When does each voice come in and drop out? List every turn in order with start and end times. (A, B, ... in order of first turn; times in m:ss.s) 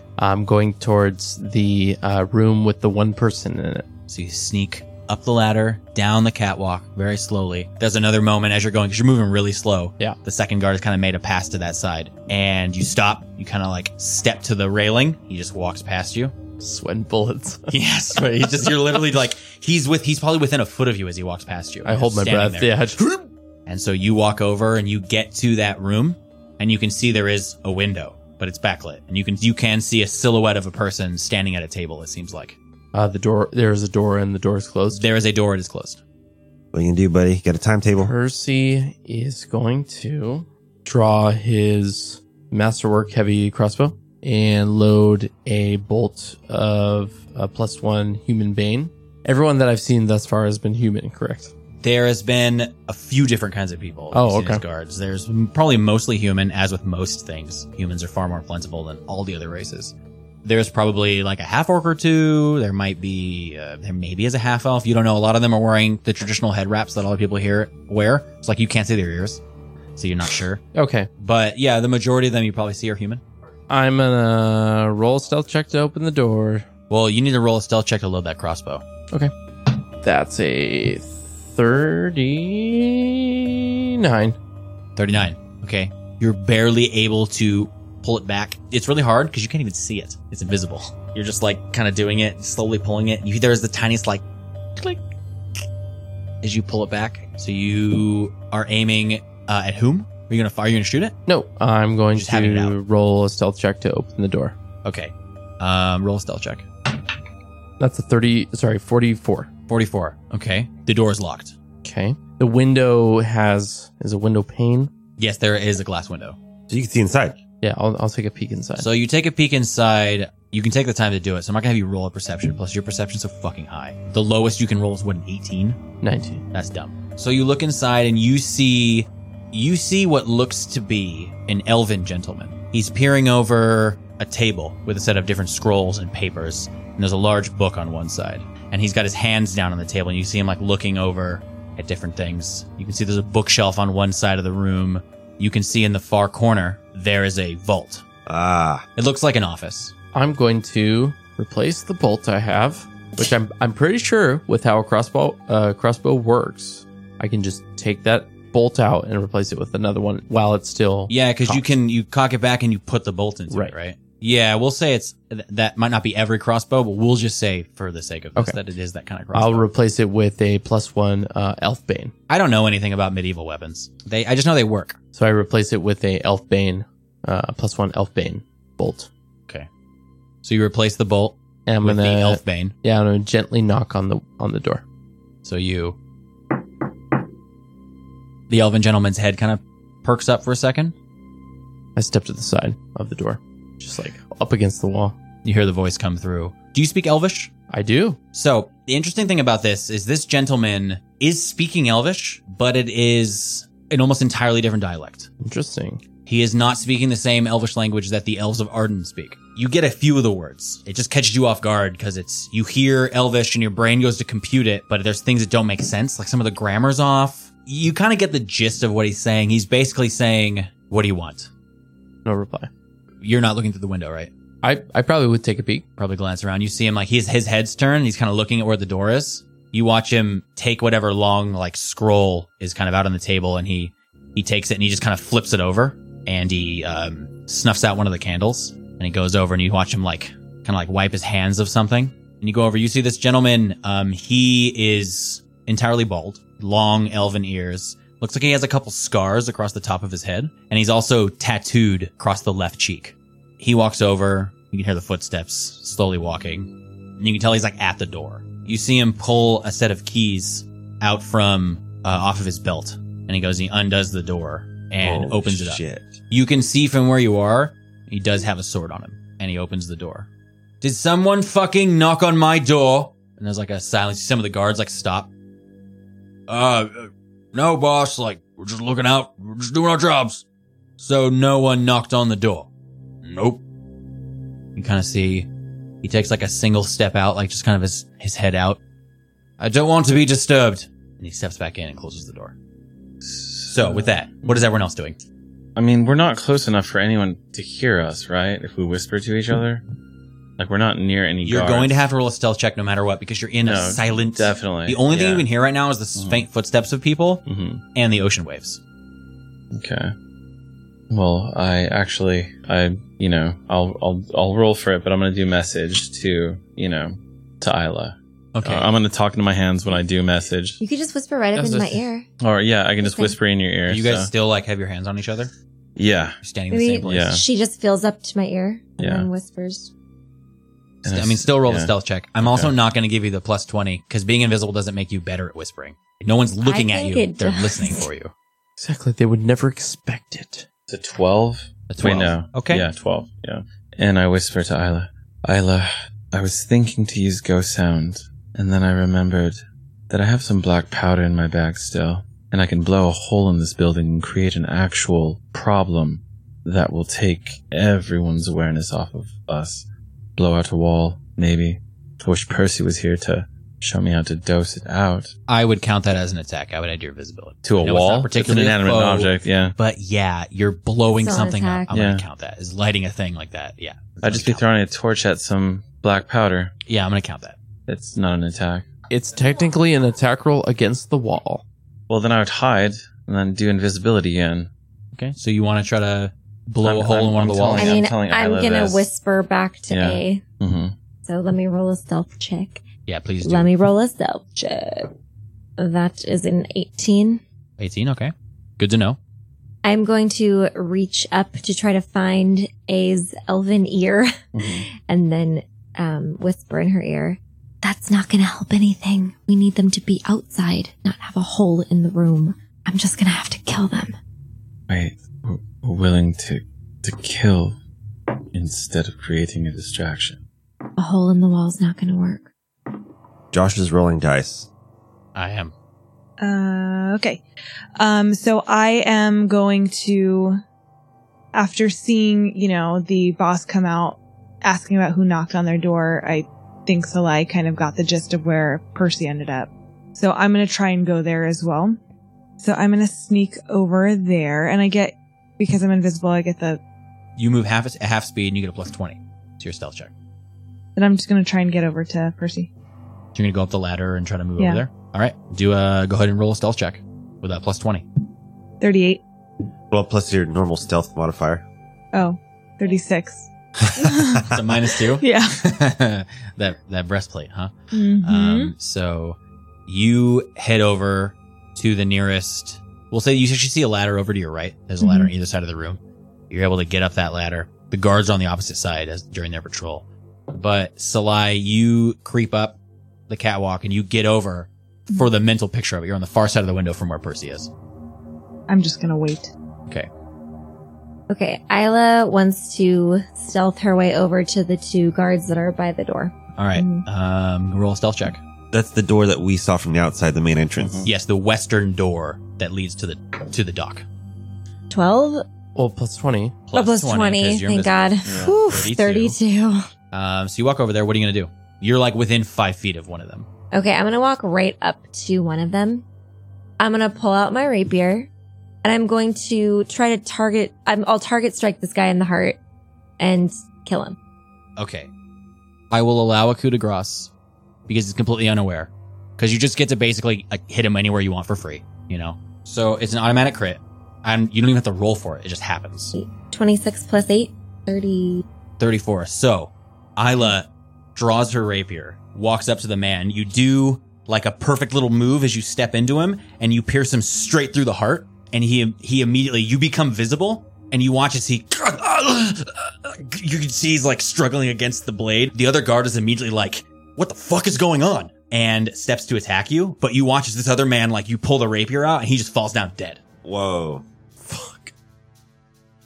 0:00.2-0:03.9 A
0:04.1-0:16.4 B
0:16.6-0:18.7 A
0:17.7-0:22.7 B
0:21.8-0:23.3 A
0:23.6-0:32.6 B
0:32.9-0:35.1 A
0:34.9-0:36.0 B
0:36.7-0:38.1 C
0:38.0-0:51.5 A
0:51.8-1:09.4 B
0:54.1-0:54.6 A
1:10.0-1:10.6 B
1:10.7-1:11.1 A
1:11.2-1:13.2 B
1:13.7-1:16.7 A
1:16.9-1:18.8 B
1:20.0-1:24.4 A
1:25.0-1:34.2 B
1:36.4-1:41.2 B
1:41.3-1:44.6 A
1:42.1-1:42.8 B
1:44.8-1:46.7 B
1:47.8-1:49.5 A
1:49.7-1:51.6 B
1:51.8-1:54.9 A
1:55.2-1:56.4 B
1:56.7-1:57.4 C
1:57.6-1:58.9 A
1:58.8-2:05.8 B
2:06.0-2:06.4 A
2:06.5-2:28.0 B
2:28.3-2:28.8 C
2:29.0-2:29.9 B
2:30.1-2:41.7 A
2:41.1-2:49.6 B
2:49.3-2:52.1 A
2:52.3-2:55.0 B
2:55.1-2:59.1 A
3:00.4-3:02.7 B
3:01.7-3:04.8 A
3:05.4-3:06.0 B
3:08.5-3:10.9 B
3:12.0-3:15.1 A
3:15.4-3:17.5 B
3:17.7-3:18.2 A
3:18.3-3:25.3 B
3:25.4-3:26.0 A
3:26.3-3:41.5 B
3:42.2-3:42.7 A
3:43.2-3:44.3 B
3:44.6-3:45.8 A
3:46.0-4:30.3 B
4:25.0-4:26.2 C
4:30.8-4:35.3 B
4:36.5-4:40.4 B
4:41.0-4:42.7 B
4:43.2-4:43.6 B
4:44.8-4:45.5 B
4:46.0-4:48.8 B
4:49.6-4:52.6 B
4:53.2-4:54.6 D
4:53.6-4:55.2 B
4:55.8-4:59.8 D
5:00.6-5:02.1 D
5:01.4-5:07.4 B
5:03.6-5:05.5 D
5:06.2-5:06.4 D
5:07.4-5:07.8 D
5:07.9-5:08.8 B
5:09.7-5:10.1 D
5:11.1-5:20.8 D
5:18.5-5:18.9 B
5:20.8-5:22.3 E
5:21.6-5:22.0 A
5:22.4-5:24.3 D
5:23.0-5:23.4 E
5:23.9-5:25.5 B
5:26.0-5:26.4 D
5:26.4-5:27.4 B
5:26.7-5:29.9 E
5:27.1-5:27.4 D
5:29.0-5:29.3 D
5:31.0-5:32.7 D
5:31.1-5:38.3 B
5:36.6-5:38.1 E
5:38.8-5:40.7 A
5:40.9-6:05.3 D
5:41.9-5:42.9 B
6:05.5-6:14.7 B
6:07.6-6:09.7 D
6:11.1-6:11.9 E
6:11.9-6:12.2 D
6:14.2-6:16.7 D
6:16.8-6:17.6 B
6:17.9-6:18.9 D
6:19.1-6:21.6 A
6:22.1-6:24.7 D
6:25.1-6:28.0 B
6:26.8-6:29.1 D
6:27.7-6:30.4 E
6:29.9-6:30.9 D
6:31.2-6:32.8 E
6:33.1-6:33.7 B
6:33.4-6:35.1 E
6:35.8-6:37.4 E
6:37.8-6:39.2 B
6:39.8-6:44.3 E
6:44.6-6:44.9 D
6:45.1-6:54.1 E
6:54.9-6:57.8 D
6:58.5-7:00.4 D
7:01.0-7:02.5 E
7:03.5-7:04.7 C
7:05.4-7:05.7 B
7:06.4-7:07.4 F
7:08.0-7:10.6 F
7:11.5-7:22.0 F
7:22.6-7:26.8 F
7:27.4-7:30.1 B
7:31.0-7:32.7 F
7:33.3-7:38.1 B
7:38.8-7:39.2 F
7:39.9-7:41.6 C
7:42.1-7:44.6 F
7:44.0-7:44.4 C
7:44.5-8:02.8 B
7:45.2-7:45.6 F
7:47.9-7:48.7 F
7:55.0-7:55.3 F
8:03.3-8:07.7 B
8:08.7-8:09.5 F
8:11.3-8:17.0 E
8:16.6-8:18.4 B
8:18.7-8:21.1 C
8:20.8-8:21.1 D
8:21.0-8:24.0 B
8:24.9-8:25.4 E
8:25.7-8:26.6 A
8:26.7-8:29.4 B
8:26.7-8:29.8 E
8:28.3-8:28.7 D
8:30.1-8:33.5 B
8:33.7-8:36.0 E
8:36.8-8:38.3 E
8:38.8-8:42.6 E
8:43.2-8:44.2 E
8:44.8-8:45.1 B
8:45.9-8:47.3 B
8:47.9-8:56.1 B
8:56.1-8:58.4 E
8:58.8-9:23.2 B
9:23.4-9:24.0 C
9:24.4-9:24.9 A